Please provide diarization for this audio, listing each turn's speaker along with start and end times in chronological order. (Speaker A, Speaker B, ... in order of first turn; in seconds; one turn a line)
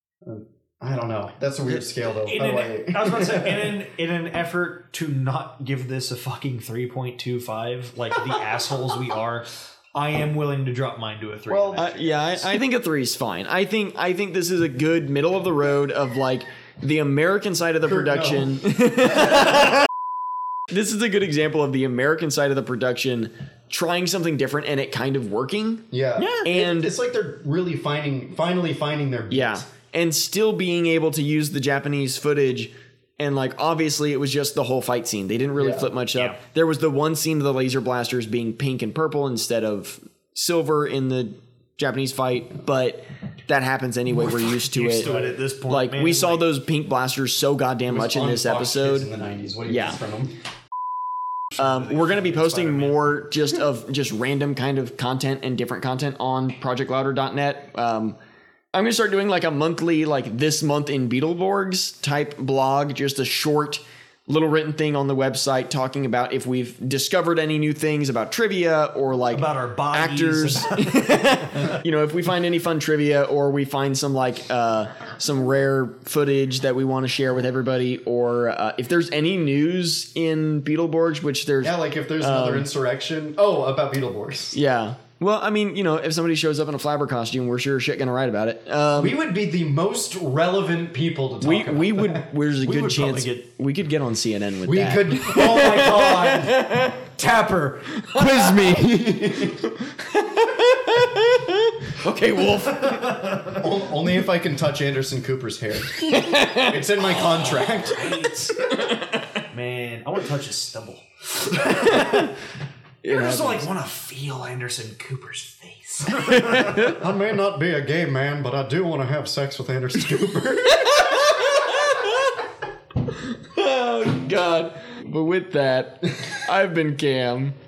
Speaker A: 0.2-3.8
Speaker B: 2.2-12.2
Speaker A: 11.5-12.0
Speaker C: 11.8-19.8
Speaker A: 17.9-18.6
Speaker C: 20.7-25.9
Speaker A: 25.9-29.7
Speaker B: 26.2-26.5
Speaker C: 26.4-26.9
Speaker C: 29.3-45.1
Speaker A: 35.6-35.9
Speaker B: 44.2-46.5
Speaker A: 45.0-45.4
Speaker C: 45.7-49.1
Speaker A: 47.9-50.4
Speaker C: 49.7-50.0
Speaker B: 51.6-53.3
Speaker C: 51.6-58.2
Speaker C: 58.7-82.7
Speaker B: 69.3-71.8
Speaker A: 81.6-84.6
Speaker C: 84.5-89.2
Speaker A: 89.0-92.3
Speaker C: 91.4-97.0
Speaker B: 92.6-93.5
Speaker A: 94.7-99.7
Speaker C: 98.0-98.7
Speaker C: 99.6-103.1
Speaker B: 102.7-103.6
Speaker A: 103.5-108.2
Speaker C: 105.9-106.9
Speaker B: 107.4-108.7
Speaker C: 108.6-109.4
Speaker B: 109.5-112.3
Speaker C: 111.7-112.3
Speaker C: 113.0-113.7
Speaker B: 113.1-116.9
Speaker C: 116.2-117.0
Speaker A: 116.9-121.8
Speaker C: 120.8-122.4
Speaker C: 123.1-127.6